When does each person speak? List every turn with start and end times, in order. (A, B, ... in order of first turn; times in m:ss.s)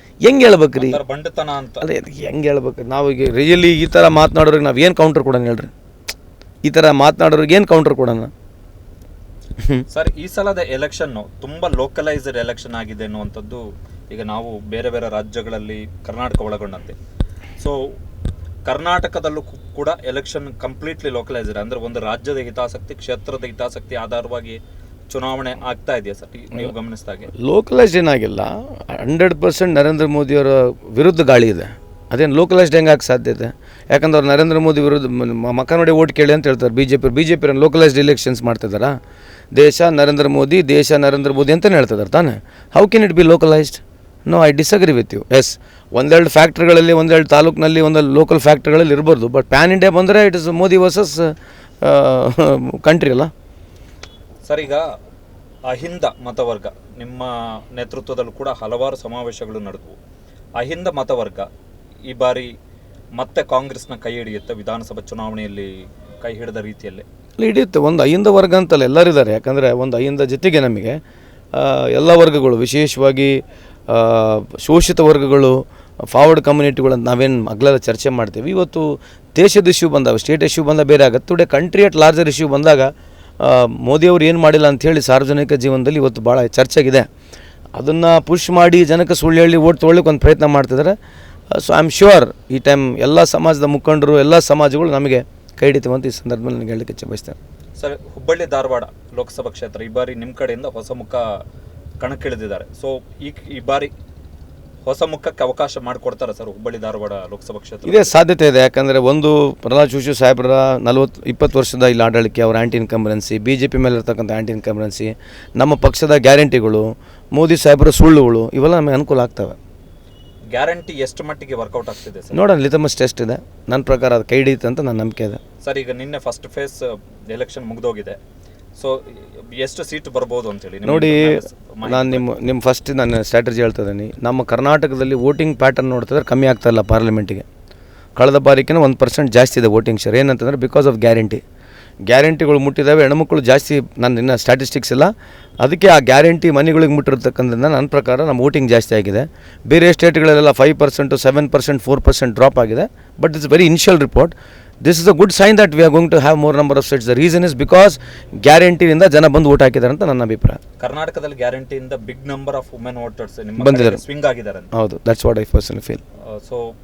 0:00.2-0:01.0 A
0:00.7-0:01.9 B
0:01.8-0:05.7 A
0:06.6-0:08.3 A
0:09.6-0:09.8 A
0:09.9-0:17.0 B
0:17.6-0:17.9 B
0:18.6-0:27.3 B
0:27.4-0:38.9 A
0:39.5-0:53.3 A
0:54.4-0:54.9 B
0:55.7-1:00.0 B
1:00.6-1:01.5 B
1:02.1-1:02.5 B
1:03.2-1:07.0 B
1:07.4-1:11.0 A
1:11.5-1:27.1 A
1:27.7-1:30.9 A
1:31.5-1:37.4 A
1:37.8-1:41.4 B
1:42.0-1:43.9 B
1:44.8-1:48.2 B
1:47.8-1:59.6 A
2:00.5-2:02.4 B
2:02.3-2:05.4 A
2:05.6-2:08.2 B
2:08.8-2:12.3 B
2:10.8-2:17.4 A
2:18.2-2:21.4 A
2:22.1-2:40.6 A
2:40.8-2:44.7 B
2:43.6-2:44.0 A
2:44.7-2:46.0 A
2:46.3-2:46.7 B